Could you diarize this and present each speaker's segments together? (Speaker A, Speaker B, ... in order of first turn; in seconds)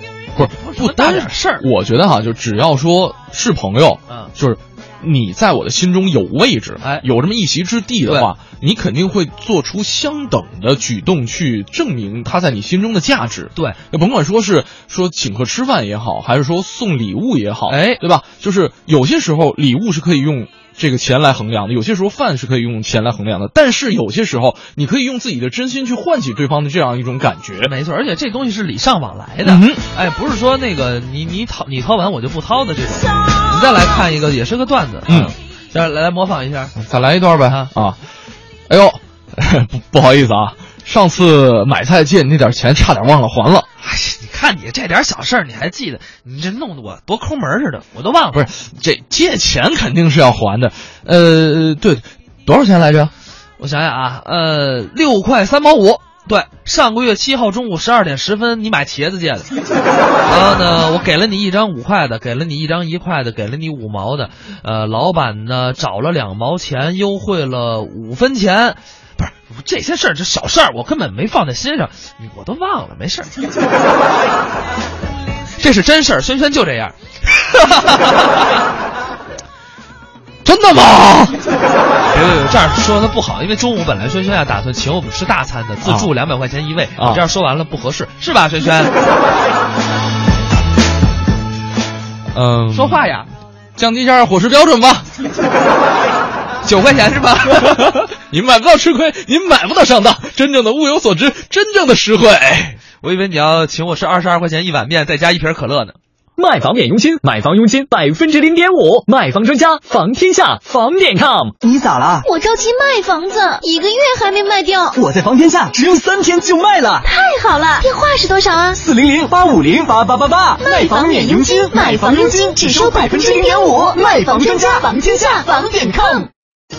Speaker A: 0.3-1.6, 6.8-7.0, 8.0-8.3, 17.7-18.0, 27.6-36.7, 43.8-48.4, 53.6-59.5, 60.2-73.3, 75.6-78.5, 82.1-88.9, 92.7-93.3, 96.6-98.0, 103.0-106.0
Speaker B: 0.3-27.7, 29.4-29.8, 35.1-35.3, 36.8-38.0, 38.7-43.7, 48.3-53.1, 80.4-81.4, 85.8-86.1, 87.0-87.2, 92.3-93.1, 93.8-95.1, 97.5-102.8
Speaker C: 106.4-111.5
Speaker D: 111.6-112.2, 114.9-117.1, 118.8-126.2
Speaker E: 112.2-115.0, 117.0-118.8, 120.6-126.2